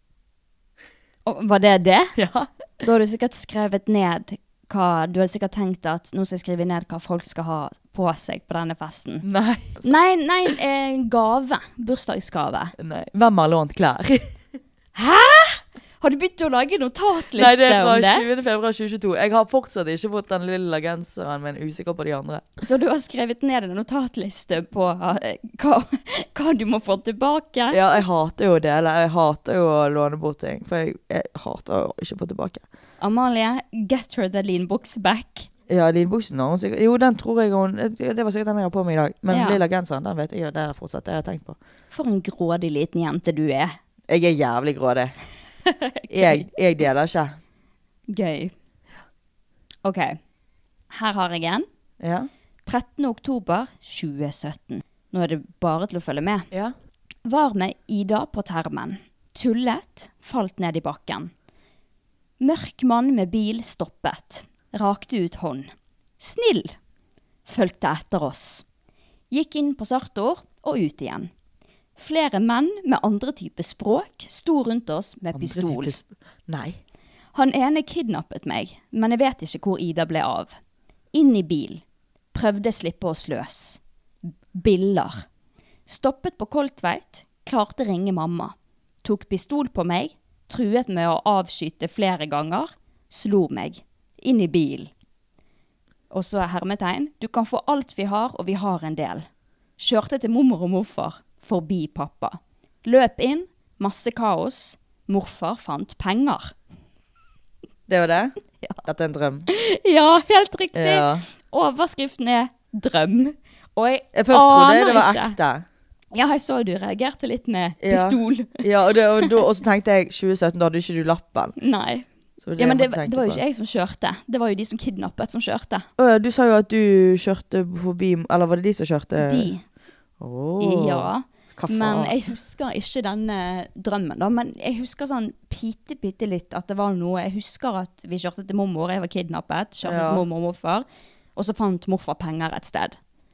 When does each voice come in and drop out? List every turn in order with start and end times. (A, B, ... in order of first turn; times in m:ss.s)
0:01.2-0:02.2 A
0:02.2-0:02.5 B
0:02.8-0:09.2 A
0:09.2-0:09.9 B
0:09.8-0:12.7 A
0:12.8-0:14.3 B
0:14.9-0:18.2 A
0:17.3-0:22.5 B
0:22.6-0:28.0 A
0:27.7-0:32.6 B
0:33.0-0:35.5 A
0:35.7-0:41.6 B
0:39.3-0:39.6 A
0:41.9-0:43.8 A
0:44.1-0:45.1 B
0:45.6-0:46.5 A
0:46.1-0:47.4 B
0:48.1-0:48.5 A
0:49.8-0:50.2 A
0:50.9-0:51.6 A
0:52.0-0:52.3 B
0:52.6-0:56.5 A
0:57.2-1:01.3 A
1:02.4-1:06.7 A
1:07.4-1:08.6 A
1:09.3-1:11.3 A
1:12.0-1:15.9 A
1:15.3-1:16.8 B
1:17.3-1:20.6 A
1:21.1-1:21.8 A
1:22.3-1:25.2 A
1:25.9-1:34.9 A
1:36.1-1:39.3 A
1:39.8-1:46.5 A
1:47.9-1:49.5 B
1:49.5-1:55.4 A
1:50.7-1:51.2 B
1:54.1-1:55.6 B
1:56.1-1:58.6 A
1:57.8-2:01.5 B
2:01.6-2:05.9 A
2:02.4-2:03.4 B
2:06.0-2:09.5 B
2:09.2-2:09.6 A
2:10.2-2:12.1 B
2:10.6-2:20.8 A
2:19.8-2:20.2 B
2:21.4-2:23.0 A